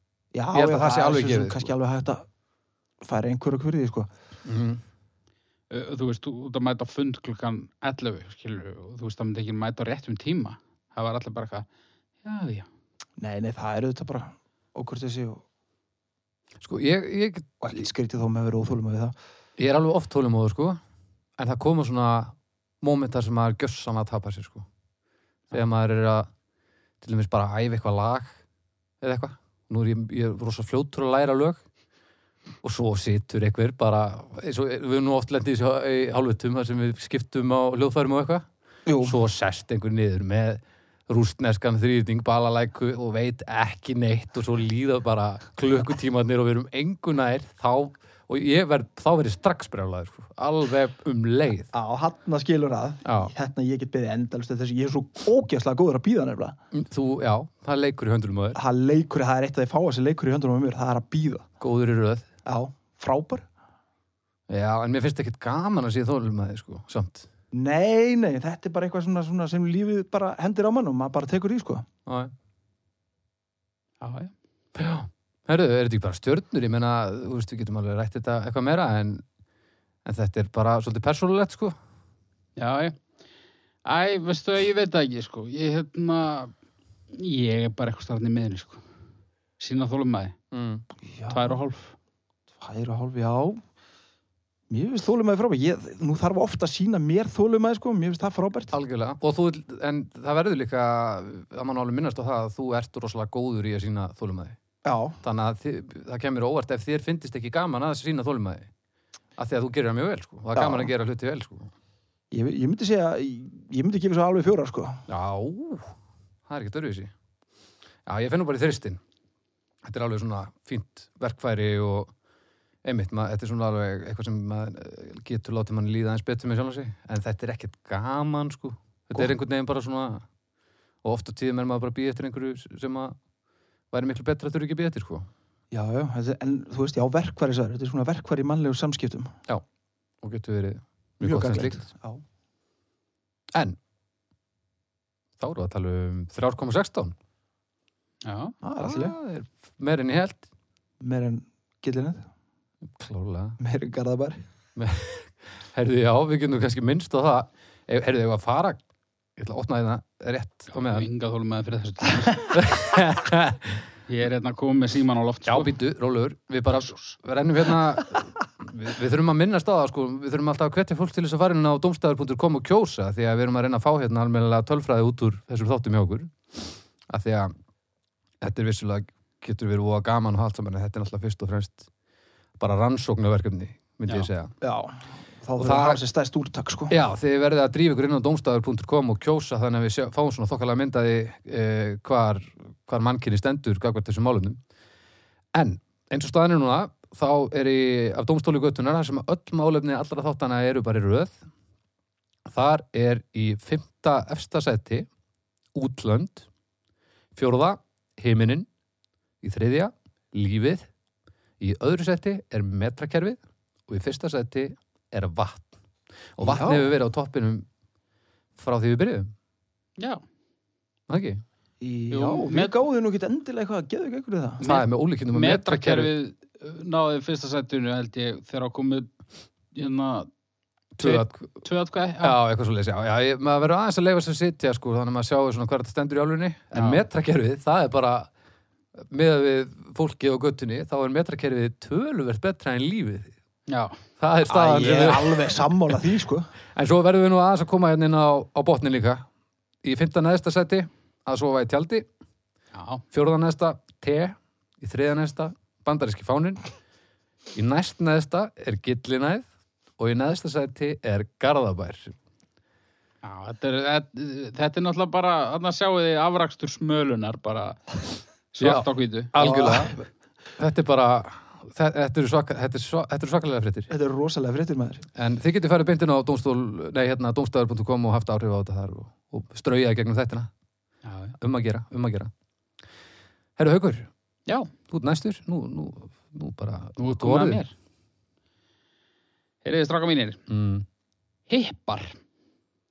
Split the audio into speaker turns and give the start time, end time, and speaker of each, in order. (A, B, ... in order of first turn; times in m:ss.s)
0:00.3-0:02.3 A
0:00.5-0:01.7 B
0:03.0-0:04.1 A
0:04.4-0:04.8 B
0:05.7-0:11.7 C
0:12.2-0:12.7 C
0:13.2-0:15.4 A
0:16.6-0:17.9 B
0:17.6-0:19.2 A
0:19.6-0:20.8 B
0:21.4-0:24.7 B
0:25.5-0:26.3 B
0:27.0-0:28.3 B
0:29.0-0:31.6 B
0:32.6-0:38.5 B
0:38.9-0:39.2 A
0:39.0-0:51.7 B
0:51.7-0:56.6 A
0:53.0-0:53.3 B
0:56.7-0:58.6 B
0:58.6-1:01.5 A
1:01.6-1:02.3 B
1:02.4-1:03.5 A
1:04.5-1:07.3 B
1:07.5-1:11.9 A
1:12.1-1:12.3 B
1:14.0-1:14.3 C
1:14.8-1:19.2 B
1:20.0-1:21.8 B
1:22.6-1:23.0 C
1:23.8-1:26.5 C
1:27.1-1:28.8 C
1:29.6-1:30.4 C
1:30.5-1:30.8 B
1:31.0-1:31.6 A
1:31.3-1:32.0 C
1:32.6-1:33.6 A
1:34.7-1:38.7 A
1:38.7-1:44.6 B
1:44.8-1:45.2 A
1:45.2-1:48.7 B
1:49.4-1:51.7 B
1:50.5-1:50.9 A
1:52.3-1:55.0 A
1:55.1-1:55.9 B
1:56.5-1:57.1 B
1:58.1-1:59.0 B
1:59.8-2:02.1 B
2:02.8-2:10.3 B
2:11.0-2:13.2 B
2:13.9-2:15.3 B
2:15.7-2:19.3 A
2:20.2-2:21.8 B
2:21.2-2:22.2 A
2:25.4-2:27.2 B
2:28.2-2:28.6 C
2:28.6-2:29.2 A
2:28.8-2:30.4 B
2:31.0-2:32.3 A
2:33.0-2:33.6 B
2:33.6-2:34.4 A
2:34.8-2:38.8 B
2:39.4-2:41.1 B
2:40.8-2:42.5 C
2:42.5-2:43.8 B
2:44.1-2:45.8 C
2:45.5-2:57.5 B
2:46.8-2:47.2 C
2:58.4-3:01.9 B
3:02.6-3:04.5 B
3:04.6-3:07.0 A
3:05.6-3:06.0 B
3:06.9-3:14.6 B
3:15.6-3:21.4 B
3:22.5-3:25.1 B
3:25.8-3:26.5 B
3:27.4-3:28.7 B
3:29.4-3:30.9 B
3:31.6-3:35.7 B
3:36.4-3:37.7 B
3:36.4-3:37.0 A
3:38.6-3:39.3 B
3:40.0-3:40.2 C
3:41.1-3:41.4 B
3:41.8-3:44.6 A
3:42.1-3:42.8 C
3:44.6-3:49.1 C
3:44.6-3:46.1 B
3:49.7-3:50.3 C
3:51.0-3:51.6 B
3:51.0-3:52.4 C
3:52.2-3:58.3 B
3:56.7-3:57.0 C
3:59.1-4:03.3 B
4:03.7-4:04.0 C
4:04.2-4:05.7 B
4:04.5-4:06.5 A
4:06.8-4:09.2 B
4:09.8-4:12.1 B
4:12.7-4:13.0 C
4:13.1-4:16.7 B
4:17.6-4:19.5 B
4:20.0-4:22.1 B
4:23.2-4:28.0 C
4:28.5-4:29.3 C
4:28.6-4:30.0 B
4:29.4-4:30.0 A
4:30.6-4:33.9 B
4:33.9-4:35.1 A
4:35.2-4:40.5 B
4:41.0-4:41.4 C
4:41.4-4:42.3 B
4:43.6-4:44.1 B
4:44.9-4:47.6 B
4:47.0-4:47.7 C
4:49.6-4:50.4 C
4:50.5-4:50.9 B
4:51.5-4:52.2 C